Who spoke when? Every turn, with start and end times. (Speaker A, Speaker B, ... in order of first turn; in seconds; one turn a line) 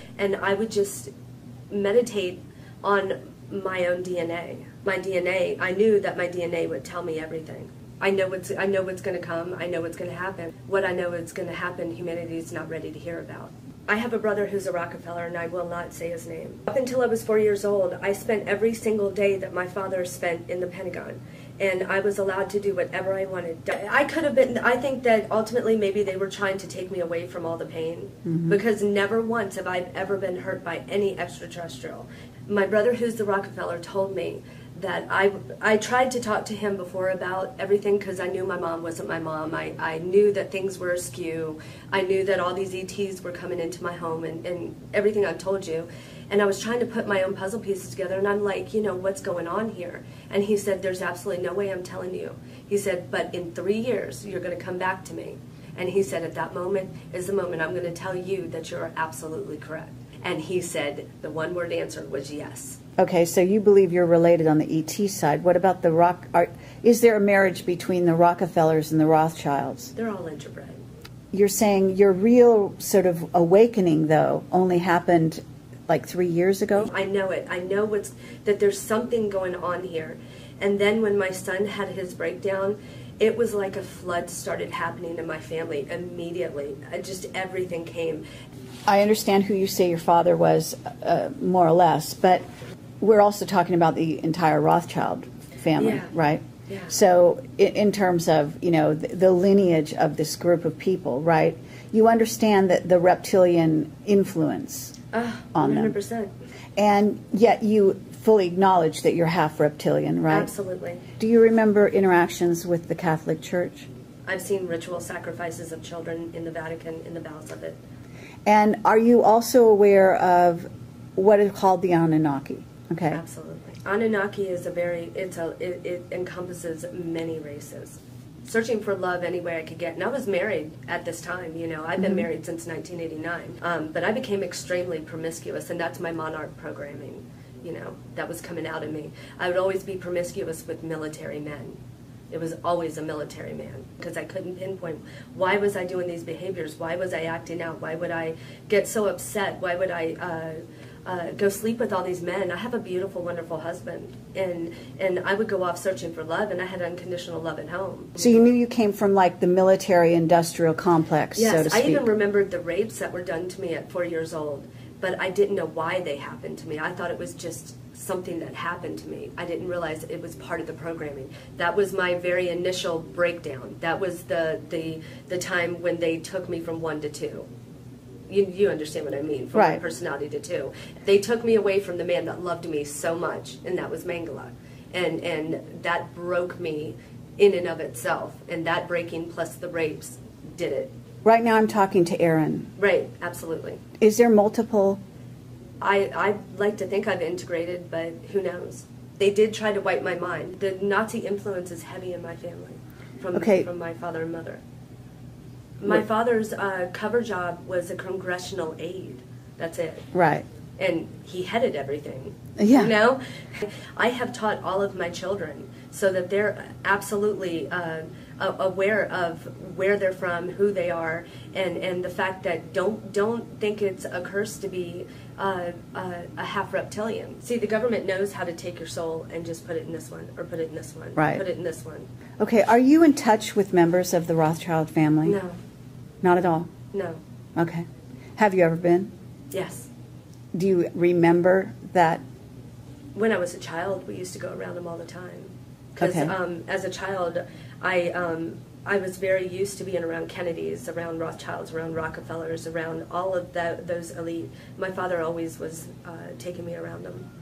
Speaker A: 0.2-1.1
Speaker A: 1.7-62.8
Speaker B: 28.3-28.6
Speaker B: 63.0-69.9
Speaker A: 70.0-70.8
Speaker B: 71.3-76.9
Speaker A: 76.8-88.2
Speaker B: 88.9-92.4
Speaker B: 93.0-105.0
Speaker A: 95.8-96.1
Speaker A: 96.7-96.9
Speaker A: 105.1-106.3
Speaker B: 105.5-105.9
Speaker B: 106.8-110.5
Speaker A: 110.3-111.0
Speaker B: 111.2-113.9
Speaker A: 114.2-117.8
Speaker B: 118.5-123.2
Speaker A: 123.1-141.8
Speaker B: 132.0-132.3
Speaker A: 142.3-158.4
Speaker B: 158.2-162.1
Speaker A: 161.3-177.5
Speaker A: 178.3-190.9
Speaker B: 179.6-179.8
Speaker B: 191.2-192.7
Speaker A: 192.8-193.8
Speaker B: 194.0-195.0
Speaker A: 195.8-204.6
Speaker B: 203.3-203.7
Speaker A: 205.8-210.1
Speaker B: 210.1-210.4
Speaker A: 210.8-232.1
Speaker B: 212.6-212.9
Speaker B: 231.2-231.4
Speaker B: 232.4-235.4
Speaker A: 235.2-235.6
Speaker B: 236.2-236.7
Speaker A: 236.9-237.2
Speaker B: 237.6-237.8
Speaker B: 238.4-239.1
Speaker A: 239.5-239.9
Speaker B: 240.5-242.2
Speaker A: 243.1-257.3
Speaker B: 246.0-246.3